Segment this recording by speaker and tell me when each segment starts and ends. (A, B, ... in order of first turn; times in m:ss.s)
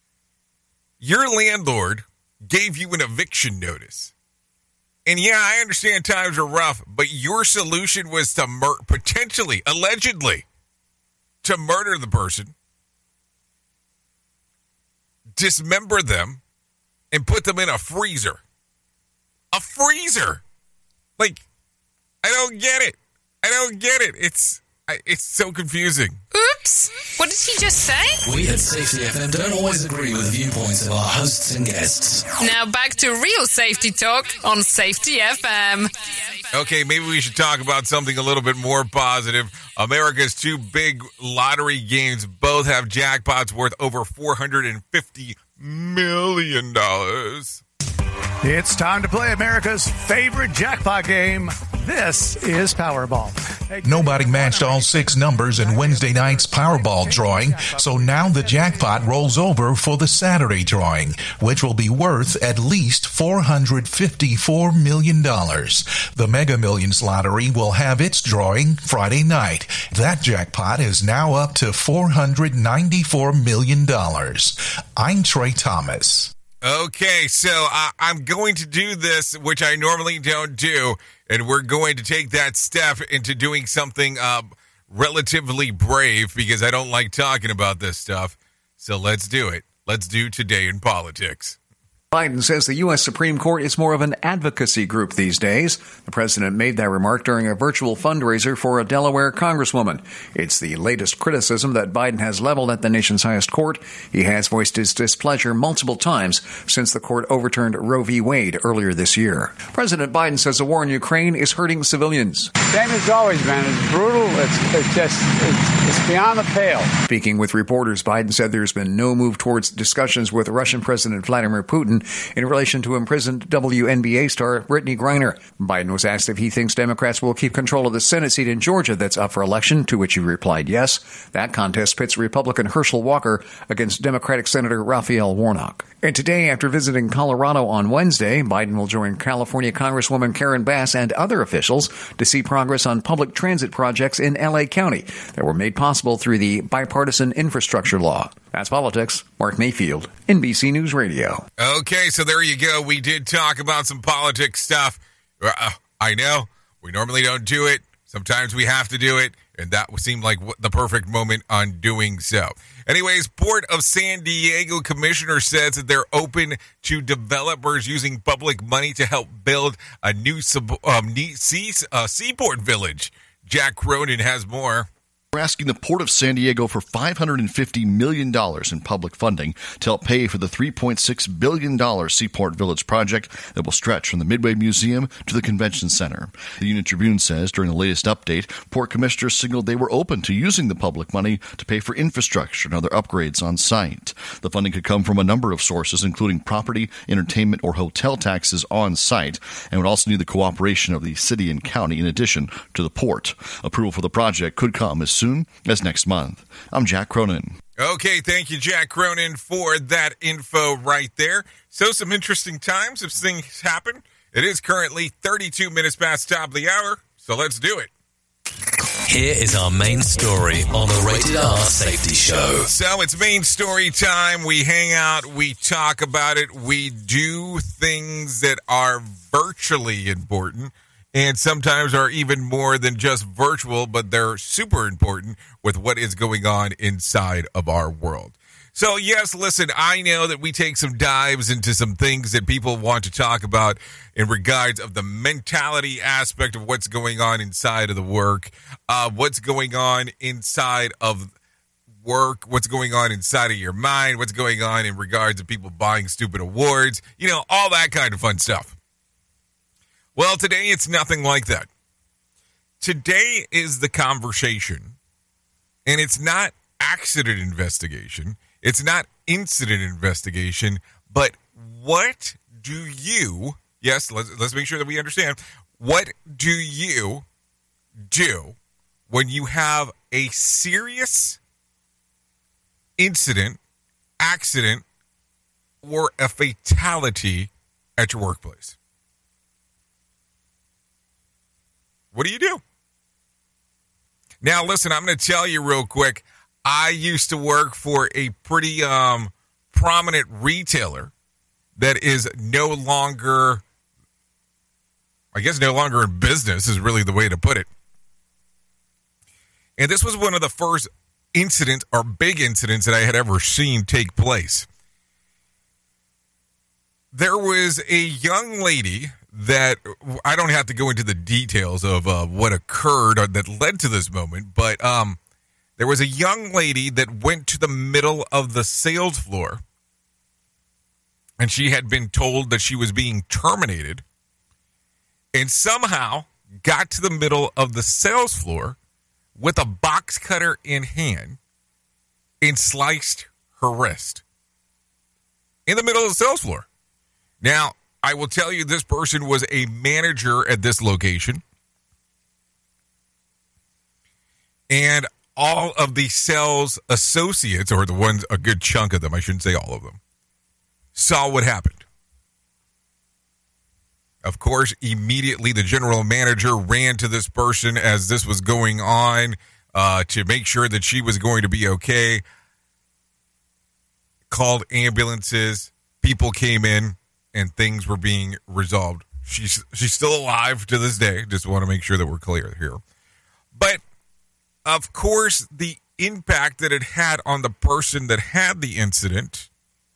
0:01.0-0:04.1 A
0:05.1-0:10.4 A
0:11.4-0:12.5 A
0:15.4-0:16.4 A
0:17.1-0:18.4 A
0:19.5-0:20.4 A
0:22.2-0:26.2 A
0:26.3-0:28.2 B
0:28.2-0:32.3 C
0:32.4-0:35.9 B
0:36.5-0:47.6 A
0:48.4-0:59.1 D
0:53.8-1:16.3 E
1:16.6-1:31.6 A
1:32.1-1:52.5 F
1:52.7-1:56.9 G
1:57.1-2:31.4 F
2:31.6-2:54.9 A
2:55.3-3:27.6 H
3:27.8-3:37.9 A
3:39.1-3:42.7 C
3:42.7-4:11.3 A
4:12.0-4:18.8 A
4:20.2-4:21.7 A
4:22.8-4:25.0 A
4:25.9-4:37.2 A
4:38.1-4:38.6 A
4:39.1-4:41.4 A
4:43.0-4:43.6 A
4:44.2-4:44.8 A
4:45.8-4:48.8 A
4:52.1-4:52.6 A
4:54.4-5:01.1 A
5:01.8-5:03.6 A
5:05.3-5:07.7 A
5:09.8-5:14.7 A
5:17.1-5:25.2 A
5:25.8-5:29.6 A
5:31.4-5:34.0 A
5:35.3-5:38.8 A
5:39.4-5:41.4 A
5:42.4-5:44.2 A
5:45.7-5:46.7 A
5:47.4-5:51.4 A
5:54.7-6:00.0 A
6:01.0-6:01.8 A
6:04.2-6:12.2 A
6:14.3-6:22.8 A
6:23.5-6:23.8 A
6:24.6-6:29.5 A